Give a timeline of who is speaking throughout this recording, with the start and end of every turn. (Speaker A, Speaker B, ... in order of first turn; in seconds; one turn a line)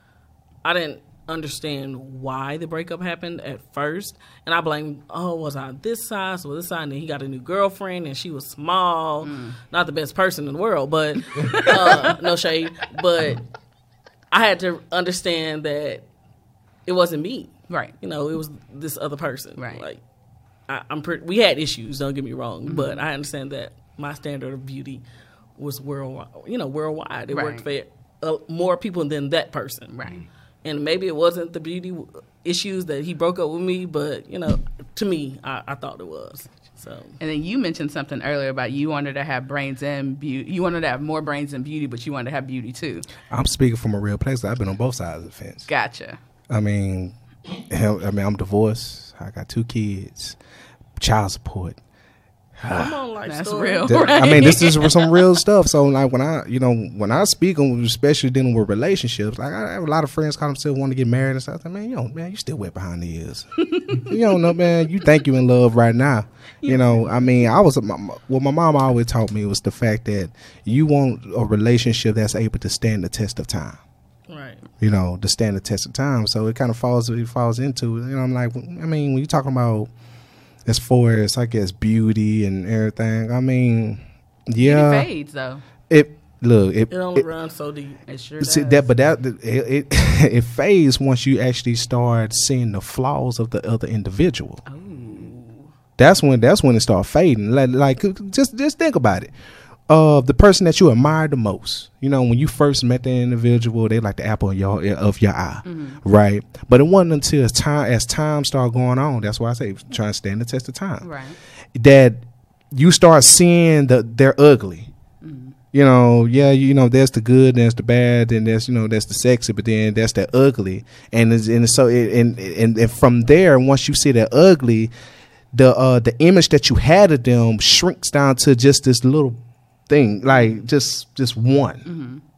Speaker A: 0.6-13.4
Speaker B: 9.2-9.6
Speaker B: 11.2-12.2
Speaker A: 14.3-16.0
Speaker A: 16.9-20.0
Speaker B: 17.7-17.9
Speaker B: 19.6-19.8
Speaker A: 20.7-25.0
Speaker B: 22.6-23.0
Speaker A: 25.6-29.9
Speaker B: 27.3-27.7
Speaker B: 29.9-30.2
Speaker A: 30.6-37.2
Speaker B: 37.2-43.0
Speaker C: 43.3-45.7
Speaker B: 45.7-46.2
Speaker C: 46.5-47.1
Speaker C: 47.7-50.4
Speaker C: 51.0-51.8
Speaker C: 52.6-53.0
Speaker A: 52.7-54.5
Speaker B: 53.2-55.3
Speaker C: 53.9-73.8
Speaker B: 63.6-64.5
Speaker B: 66.6-67.5
Speaker A: 74.3-74.7
Speaker C: 74.8-79.9
Speaker C: 80.6-85.1
Speaker B: 84.6-85.6
Speaker C: 85.9-87.3
Speaker A: 86.9-88.0
Speaker B: 88.1-88.9
Speaker C: 88.4-94.6
Speaker B: 94.7-95.5
Speaker C: 96.0-99.3
Speaker C: 99.9-111.1
Speaker B: 105.6-106.0
Speaker B: 111.0-111.3
Speaker C: 111.7-114.9
Speaker B: 115.2-115.5
Speaker C: 115.7-124.9
Speaker C: 125.5-131.8
Speaker B: 130.3-130.6
Speaker B: 131.8-132.2